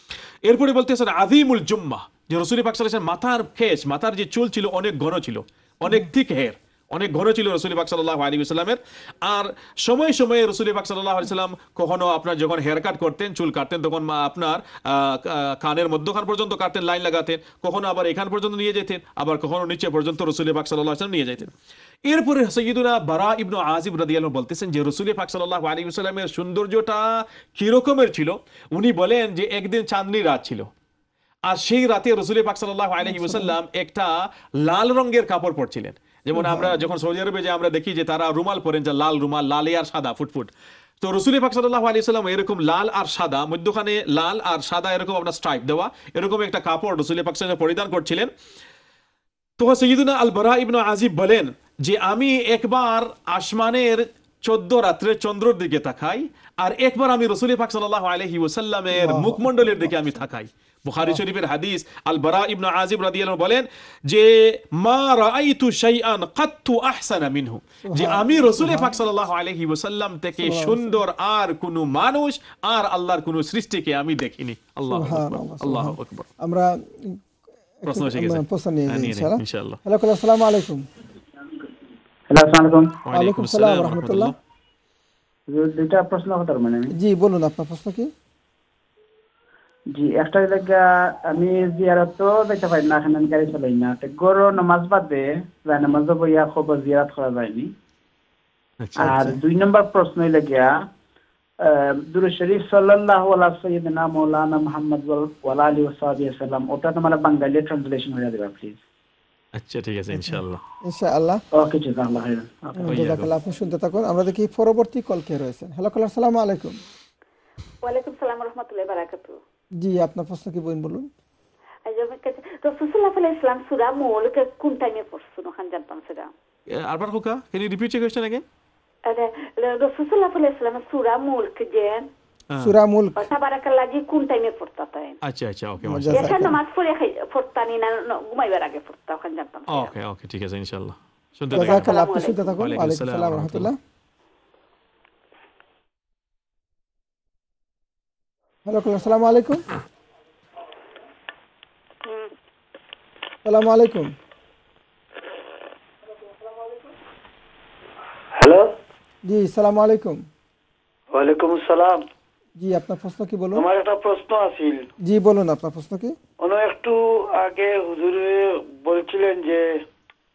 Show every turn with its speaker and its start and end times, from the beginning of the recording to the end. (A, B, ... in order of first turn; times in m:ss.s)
0:00.4-0:21.5 A
0:22.1-0:30.7 A
0:31.5-0:48.3 A
0:33.0-0:33.6 B
0:36.4-0:36.8 B
0:49.6-1:16.3 A
0:58.9-1:00.2 B
1:07.8-1:09.0 B
1:10.4-1:11.0 B
1:14.9-1:17.2 B
1:17.8-1:20.8 B
1:17.8-1:19.8 A
1:22.3-1:23.0 C
1:23.0-1:24.4 A
1:23.1-1:24.3 B
1:25.5-1:26.9 C
1:26.9-1:28.1 B
1:29.9-1:37.7 C
1:38.8-1:39.2 A
1:39.0-1:40.8 C
1:39.0-1:39.4 B
1:41.6-1:48.8 C
1:49.5-1:50.6 A
1:50.1-1:51.4 B
1:51.5-1:53.0 C
1:52.8-1:56.8 B
1:52.9-1:53.3 A
1:57.8-1:59.4 D
1:59.8-2:01.1 B
2:01.9-2:06.3 D
2:06.7-2:08.4 A
2:09.1-2:12.1 D
2:12.6-2:13.3 B
2:13.2-2:15.2 D
2:15.2-2:16.3 A
2:15.8-2:16.6 B
2:16.1-2:19.9 D
2:19.7-2:22.0 A
2:21.5-2:23.8 B
2:21.5-2:22.6 D
2:22.6-2:23.7 A
2:28.6-2:29.7 B
2:33.4-2:34.1 B
2:38.4-2:38.7 E
2:39.2-2:40.2 B
2:41.1-2:42.0 E
2:42.6-2:43.7 B
2:43.6-2:44.9 E
2:45.0-2:46.2 B
2:46.4-2:49.8 E